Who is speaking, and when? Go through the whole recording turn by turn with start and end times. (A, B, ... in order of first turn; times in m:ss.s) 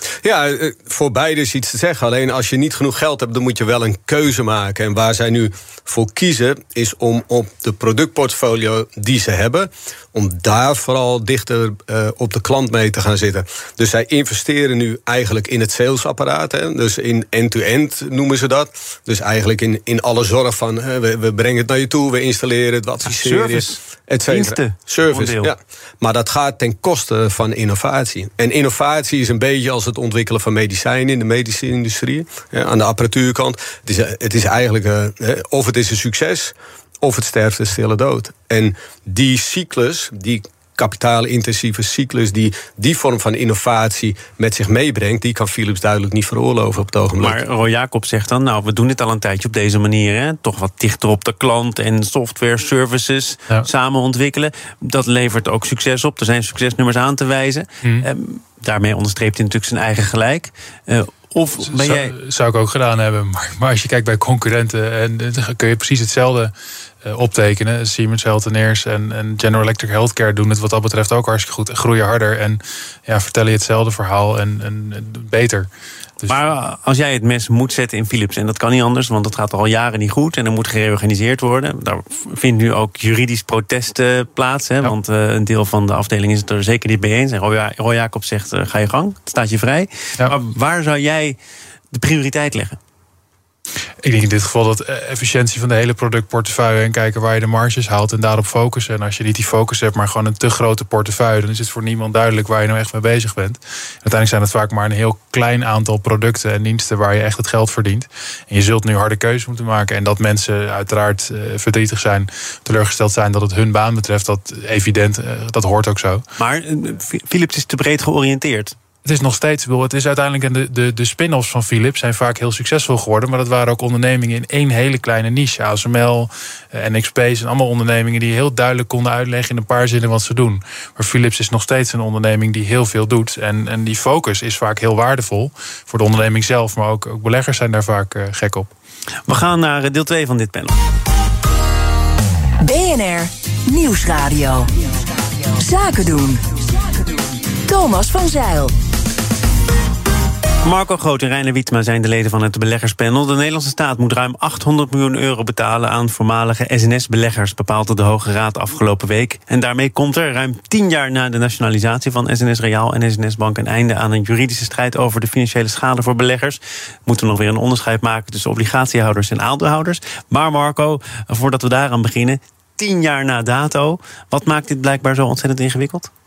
0:00.2-0:47.4 A
0:23.0-0:25.5 B
0:47.2-1:02.1 B
1:01.7-1:06.5 C
1:07.0-1:15.7 C
1:16.3-1:31.4 B
1:31.9-1:32.8 B
1:34.0-1:56.2 C
1:56.4-1:58.8 B
1:59.0-2:18.7 C
2:19.3-2:20.8 B
2:22.6-2:28.8 D
2:30.6-2:56.1 B